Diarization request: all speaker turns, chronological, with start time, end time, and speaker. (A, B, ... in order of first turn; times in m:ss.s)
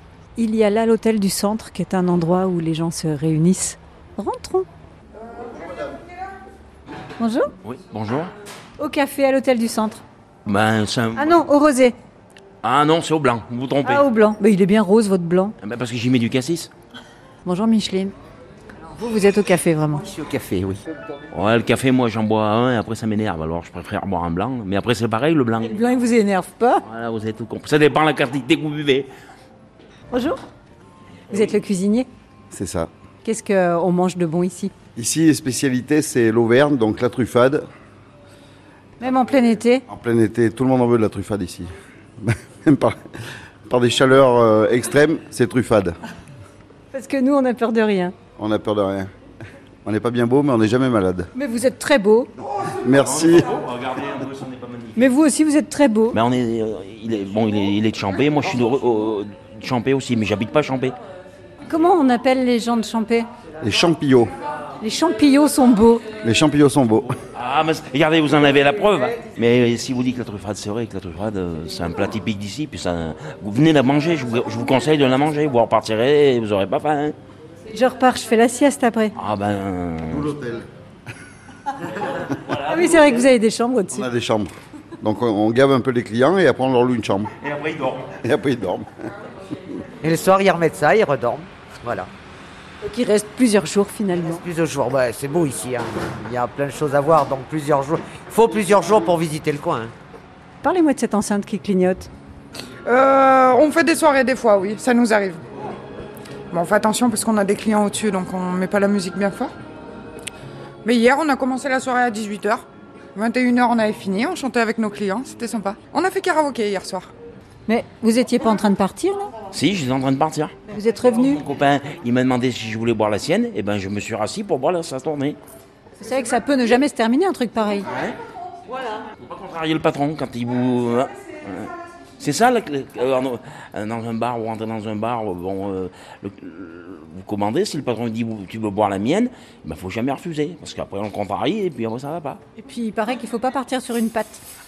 0:00.4-0:04.7 A
0:07.2-0:07.5 A
0:07.6-0:08.3 B
0:08.8-0:10.0 A
0:10.4-0:11.5 B
0:11.2-0:12.0 A
0:12.6-0:14.1 B
0:13.8-0:15.5 A
0:15.6-0:16.7 B
0:17.4-0:18.1 A
0:18.9-0:20.0 A
0:20.0-0:20.8 C
0:21.3-0:25.8 B
0:25.6-0:26.8 A
0:26.8-0:29.1 B
0:30.1-0:30.4 A
0:31.3-0:32.1 A
0:32.5-0:32.9 D
0:33.2-0:34.7 A
0:35.0-0:37.6 D
0:39.0-0:39.8 A
0:39.9-0:43.0 D
0:43.7-0:46.0 D
0:46.9-0:48.1 A
0:48.4-0:49.1 D
0:49.8-0:51.3 D
0:51.3-0:52.3 A
0:52.7-0:53.5 D
0:52.8-0:55.1 B
0:55.0-0:56.2 A
0:56.1-1:01.0 B
1:01.7-1:03.3 A
1:03.6-1:04.3 D
1:04.8-1:06.0 A
1:06.2-1:07.2 D
1:07.3-1:17.2 B
1:17.7-1:19.1 A
1:19.2-1:20.3 B
1:20.1-1:20.7 D
1:21.9-1:23.2 B
1:22.6-1:24.1 A
1:23.9-1:27.3 D
1:27.4-1:28.1 B
1:28.2-1:28.9 D
1:30.0-1:32.1 C
1:32.8-1:34.4 A
1:34.1-1:39.9 C
1:40.6-1:42.1 A
1:42.9-1:45.4 E
1:46.5-1:49.5 E
1:50.8-1:52.6 E
1:53.2-1:57.1 E
1:57.7-1:59.3 A
1:59.5-2:05.4 B
2:00.7-2:01.4 A
2:06.0-2:07.9 A
2:07.9-2:08.2 B
2:08.9-2:22.4 B
2:22.6-2:24.4 A